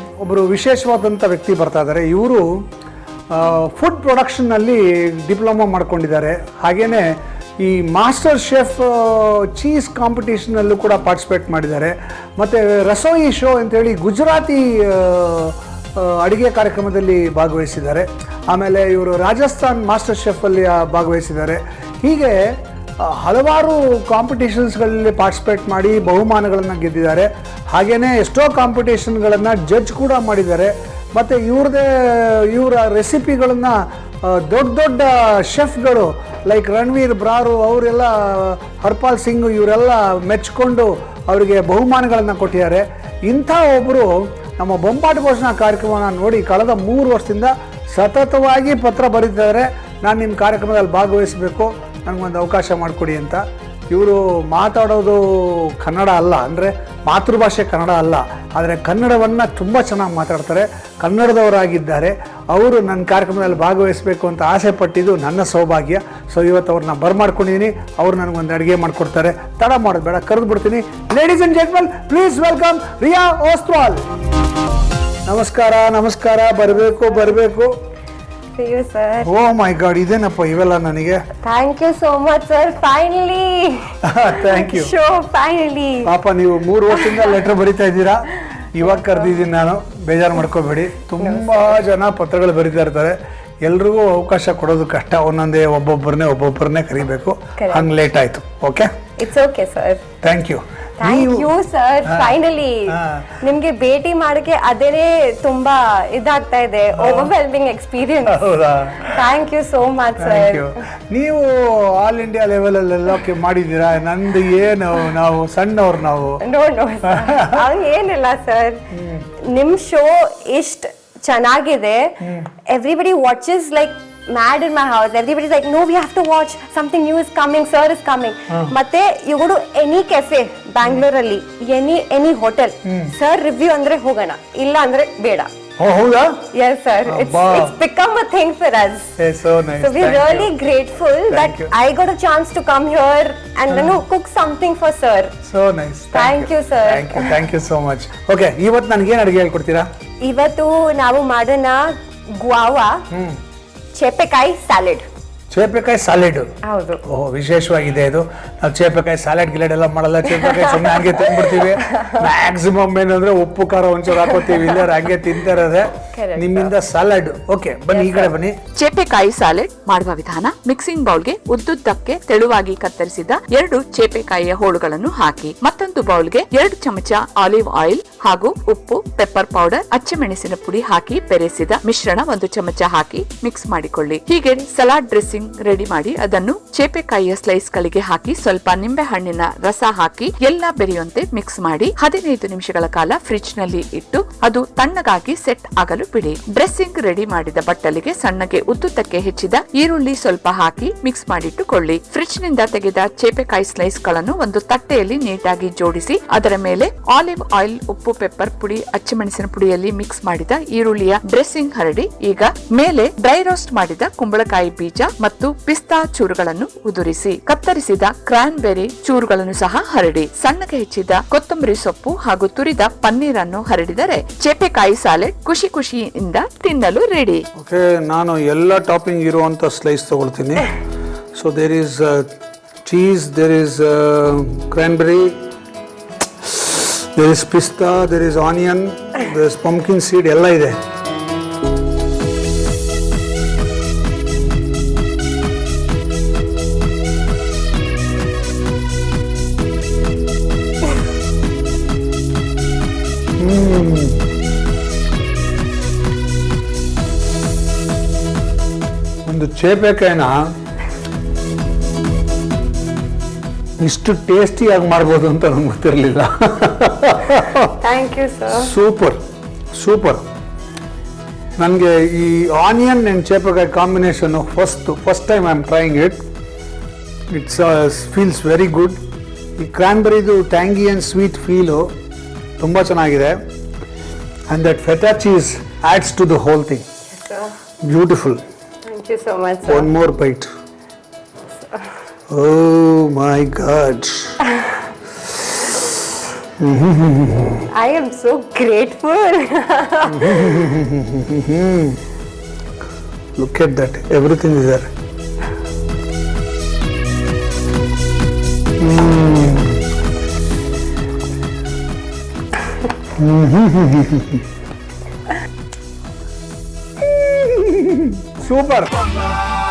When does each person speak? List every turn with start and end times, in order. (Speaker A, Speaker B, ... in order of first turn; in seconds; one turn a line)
Speaker A: 0.2-2.4
Speaker A: 3.3-7.0
Speaker A: 7.6-22.4
Speaker A: 23.0-74.0
Speaker A: 75.2-77.7
Speaker B: 78.5-79.3
Speaker A: 79.2-81.2
Speaker B: 81.4-86.1
Speaker A: 84.0-84.9
Speaker A: 86.0-98.9
Speaker B: 86.9-87.3
Speaker B: 91.2-91.8
Speaker B: 97.6-97.8
Speaker B: 99.2-100.0
Speaker A: 100.2-101.5
Speaker B: 101.0-108.4
Speaker A: 102.1-102.3
Speaker A: 102.9-103.3
Speaker A: 107.0-107.3
Speaker A: 108.3-109.2
Speaker B: 109.0-110.7
Speaker A: 110.2-116.4
Speaker B: 116.4-118.8
Speaker A: 117.1-117.6
Speaker A: 118.9-119.2
Speaker B: 119.5-122.2
Speaker A: 122.2-122.5
Speaker B: 122.7-135.5
Speaker A: 135.8-136.5
Speaker B: 136.5-139.1
Speaker A: 137.1-137.7
Speaker A: 139.2-140.5
Speaker B: 139.8-145.3
Speaker A: 141.3-141.7
Speaker A: 143.7-144.0
Speaker A: 145.4-149.9
Speaker B: 146.1-147.4
Speaker B: 150.2-153.0
Speaker A: 153.1-153.4
Speaker B: 153.9-155.0
Speaker A: 155.5-156.5
Speaker B: 156.6-157.0
Speaker A: 157.1-168.6
Speaker B: 160.3-162.2
Speaker B: 166.1-166.7
Speaker B: 167.9-168.3
Speaker C: 168.7-227.4
Speaker A: 227.6-230.7
Speaker A: 231.4-232.3
Speaker A: 232.8-235.3
Speaker A: 236.4-240.8
Speaker A: 253.4-254.2
Speaker A: 259.2-260.3
Speaker A: 263.8-267.7
Speaker B: 267.8-268.7
Speaker A: 268.5-269.2
Speaker A: 269.8-270.2
Speaker A: 271.6-276.2
Speaker A: 277.3-279.0
Speaker A: 279.6-281.8
Speaker A: 282.6-283.3
Speaker A: 284.5-286.8
Speaker B: 287.1-287.5
Speaker A: 287.8-288.4
Speaker B: 288.9-289.9
Speaker A: 289.6-290.5
Speaker A: 292.3-294.4
Speaker A: 296.6-297.6
Speaker B: 297.7-300.7
Speaker A: 300.1-302.0
Speaker A: 303.4-304.9
Speaker A: 308.8-309.8
Speaker A: 313.1-314.4
Speaker A: 317.0-319.1